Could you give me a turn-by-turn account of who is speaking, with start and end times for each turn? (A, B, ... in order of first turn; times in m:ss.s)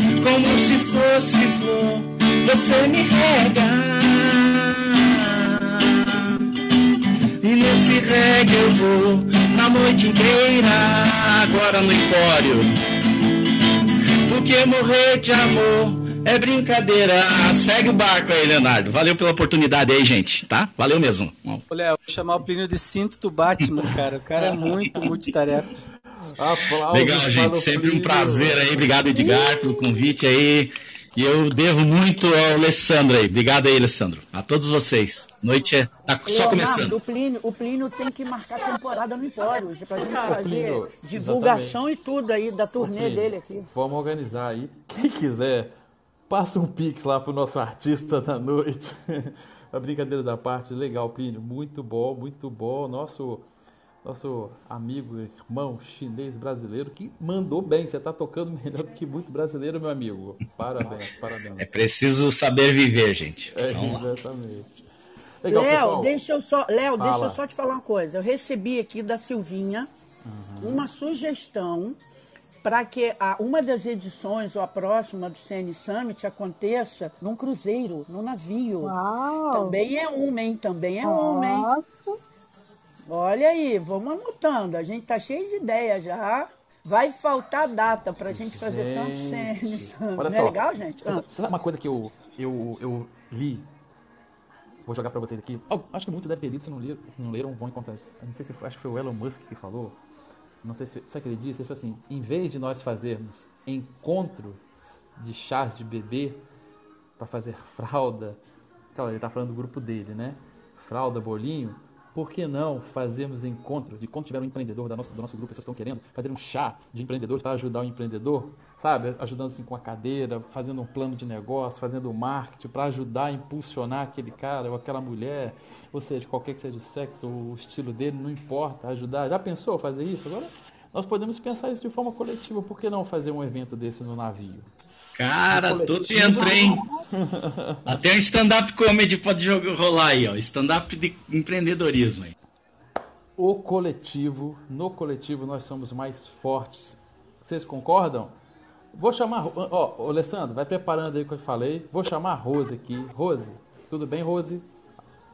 0:00.2-0:06.4 A
0:07.4-0:12.7 A
0:14.3-0:21.6 A
0:21.7-0:25.7 B
0:26.4-0:29.0 C
0:26.9-0:37.0 A
0:36.2-0:43.7 D
0:40.0-0:41.8 C
0:42.8-0:45.7 C
0:46.3-0:53.5 C
0:54.0-1:01.7 C
1:01.6-1:04.0 A
1:03.5-1:04.7 C
1:05.4-1:06.2 C
1:05.5-1:09.9 D
1:07.0-1:07.4 C
1:10.2-1:10.9 C
1:10.6-1:12.0 D
1:12.6-1:19.0 D
1:18.8-1:19.8 E
1:19.5-1:21.7 D
1:21.0-1:22.2 E
1:23.1-1:31.2 D
1:28.3-1:33.7 C
1:34.9-1:40.0 C
1:40.6-1:46.4 C
1:47.2-1:48.4 C
1:48.9-2:14.7 C
2:15.2-2:16.8 A
2:15.5-2:17.8 C
2:16.4-2:17.0 E
2:17.9-2:22.3 A
2:23.4-2:28.3 C
2:28.9-2:34.7 C